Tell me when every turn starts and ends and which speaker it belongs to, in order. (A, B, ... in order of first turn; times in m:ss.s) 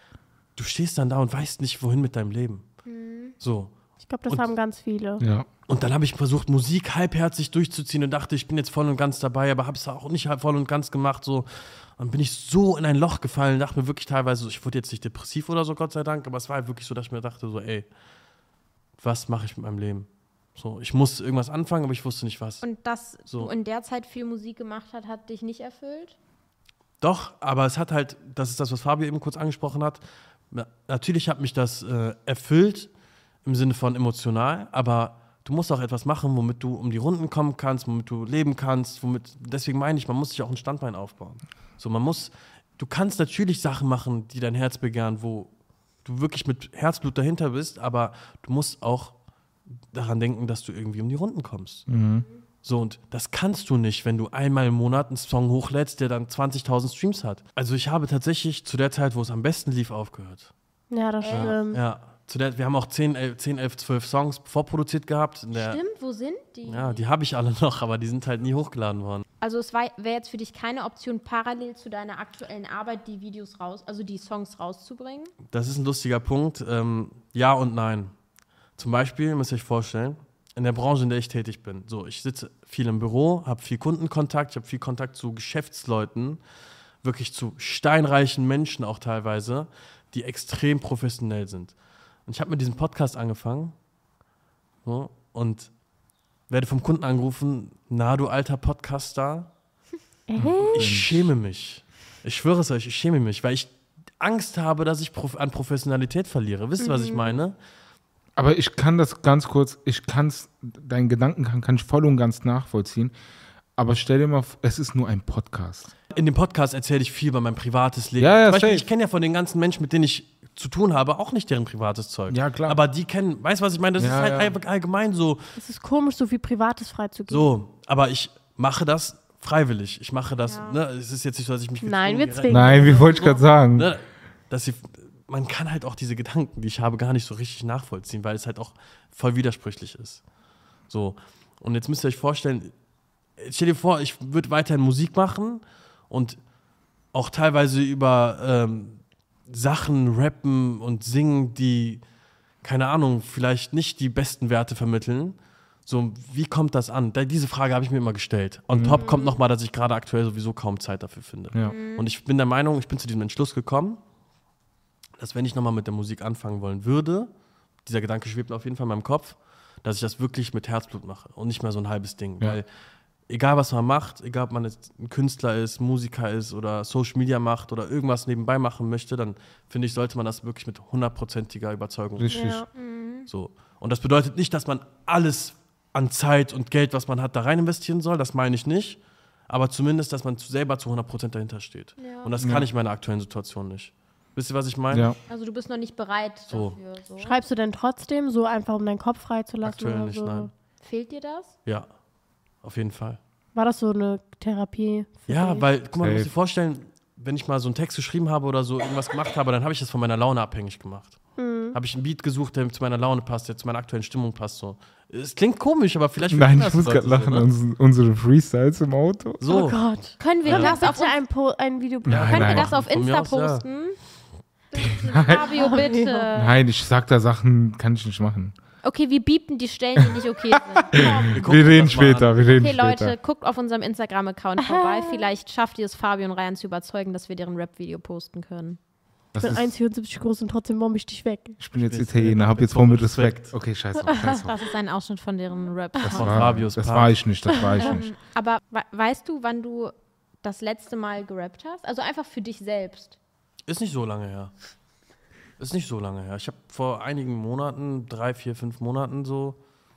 0:00.6-0:02.6 A
0:02.9-0:03.4 B
0:03.4-0:03.7 A
0:04.0-0:05.2 C
0:05.2-0:05.5 D
0:05.7-0:17.9 A
0:19.0-0:22.6 A
0:22.6-0:26.2 B
0:27.0-0:32.9 A
0:33.4-0:45.5 A
0:46.0-0:49.2 A
0:49.9-0:51.9 A
0:51.9-0:52.2 D
0:52.6-1:00.5 A
1:00.9-1:01.8 C
1:01.2-1:01.6 B
1:01.3-1:05.8 A
1:05.5-1:07.0 B
1:06.7-1:09.2 A
1:09.4-1:15.3 B
1:15.5-1:18.1 A
1:18.8-1:26.4 A
1:27.0-1:31.8 A
1:32.3-1:33.8 A
1:34.8-1:35.7 A
1:36.5-1:39.5 A
1:40.3-1:41.0 C
1:40.4-1:41.3 D
1:40.7-1:47.6 A
1:46.8-1:47.4 C
1:48.4-1:53.1 D
1:53.8-1:55.9 D
1:56.1-2:05.4 A
1:58.2-1:58.9 D
2:02.3-2:02.8 D
2:04.0-2:04.6 D
2:05.6-2:07.5 C
2:07.3-2:20.2 A
2:10.4-2:10.8 B
2:11.8-2:13.1 C
2:12.5-2:13.9 D
2:20.9-2:22.7 A
2:23.4-2:26.4 A
2:27.1-2:32.0 A
2:32.6-2:44.0 A
2:38.7-2:39.0 D
2:41.6-2:42.1 B
2:45.2-2:47.3 A
2:47.8-2:52.7 A
2:53.3-3:02.4 A
3:02.2-3:02.6 D
3:02.3-3:02.7 C
3:02.8-3:03.3 B
3:03.3-3:15.1 A
3:12.0-3:12.3 B
3:12.4-3:12.7 D
3:14.9-3:15.2 D
3:15.3-3:17.4 B
3:16.5-3:16.8 A
3:17.2-3:20.5 C
3:19.6-3:20.5 A
3:20.8-3:21.6 B
3:22.6-3:23.2 A
3:23.6-3:25.7 C
3:25.3-3:31.2 A
3:26.0-3:26.3 D
3:31.4-3:31.8 C
3:31.7-3:37.5 A
3:36.3-3:39.4 D
3:39.4-3:39.8 A
3:39.5-3:42.4 C
3:40.2-3:41.2 B
3:40.5-3:40.8 A
3:42.1-3:42.7 D
3:42.1-3:43.6 A
3:42.3-3:44.0 B
3:44.7-3:46.5 B
3:44.8-3:45.5 D
3:44.9-3:46.3 C
3:46.3-3:48.5 D
3:48.8-3:51.6 B
3:50.8-3:53.2 D
3:51.3-3:52.7 A
3:52.5-3:58.8 B
3:54.6-3:55.2 C
3:59.3-3:59.7 D
3:59.4-4:01.6 C
4:01.6-4:04.5 D
4:01.8-4:03.6 A
4:04.1-4:04.4 C
4:04.4-4:06.5 B
4:06.0-4:08.1 D
4:06.1-4:07.2 A
4:07.7-4:13.2 B
4:13.7-4:14.5 A
4:15.6-4:19.6 A